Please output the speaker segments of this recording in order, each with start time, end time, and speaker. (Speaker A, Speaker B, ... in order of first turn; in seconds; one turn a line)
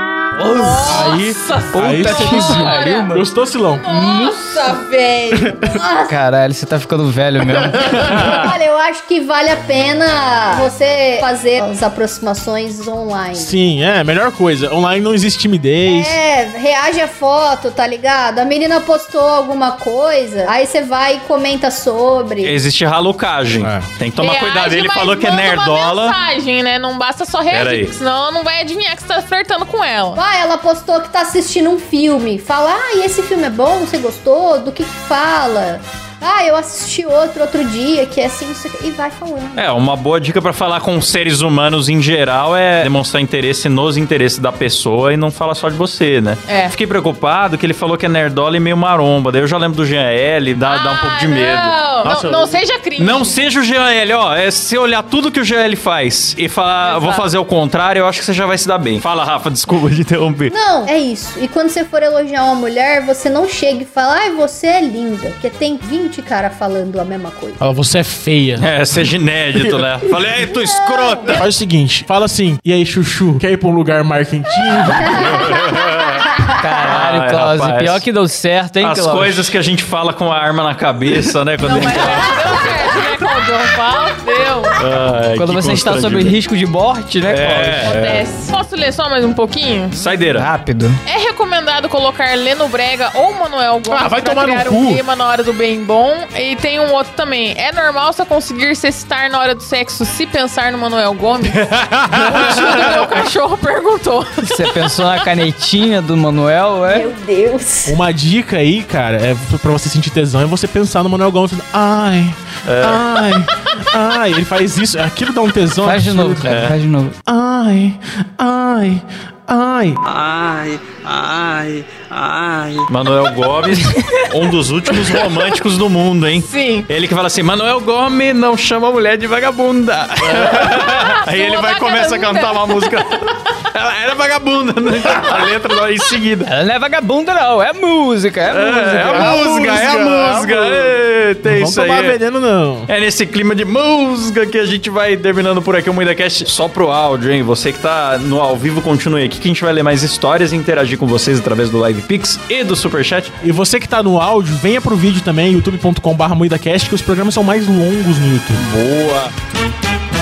Speaker A: 0.4-1.1
Speaker B: 0.5-3.2
Speaker C: 0.8-3.9
Speaker A: 1.7-3.3
Speaker B: 3.8-4.8
Speaker A: 3.9-4.4
Speaker D: 4.5-6.2
Speaker C: 5.3-5.8
Speaker A: 6.1-8.5
Speaker C: 7.5-8.6
Speaker D: 8.1-13.6
Speaker C: 13.3-16.2
Speaker D: 15.8-22.6
Speaker E: 22.4-26.2
Speaker C: 23.6-23.9
Speaker B: 24.2-30.2
Speaker E: 27.5-27.9
Speaker D: 30.2-39.7
Speaker E: 39.6-51.8
Speaker B: 46.5-46.7
Speaker B: 50.6-53.4
Speaker C: 52.0-52.6
Speaker E: 53.0-60.5
Speaker B: 56.8-57.2
Speaker D: 60.5-67.6
Speaker C: 67.6-68.7
Speaker E: 68.6-71.5
Speaker C: 69.6-69.9
Speaker D: 70.5-71.4
Speaker C: 71.3-75.5
Speaker D: 75.0-75.8
Speaker E: 75.0-78.0
Speaker A: 76.5-79.5
Speaker E: 78.8-82.5
Speaker B: 81.6-84.8
Speaker E: 84.8-86.4
Speaker A: 85.4-87.9
Speaker E: 87.3-88.2
Speaker B: 87.8-90.0
Speaker E: 89.9-90.5
Speaker A: 90.3-91.0
Speaker B: 91.1-105.2
Speaker C: 93.9-95.0
Speaker E: 101.5-103.1
Speaker A: 104.4-107.1
Speaker D: 106.9-108.0
Speaker C: 107.8-116.5
Speaker E: 112.7-113.4
Speaker A: 115.8-117.2
Speaker E: 116.5-116.8
Speaker C: 117.3-120.0
Speaker E: 120.0-136.5
Speaker B: 126.5-126.9
Speaker B: 130.4-133.3
Speaker A: 136.4-139.4
Speaker E: 138.5-142.2
Speaker C: 139.1-142.9
Speaker E: 142.9-153.3
Speaker C: 153.4-158.7
Speaker E: 158.6-159.3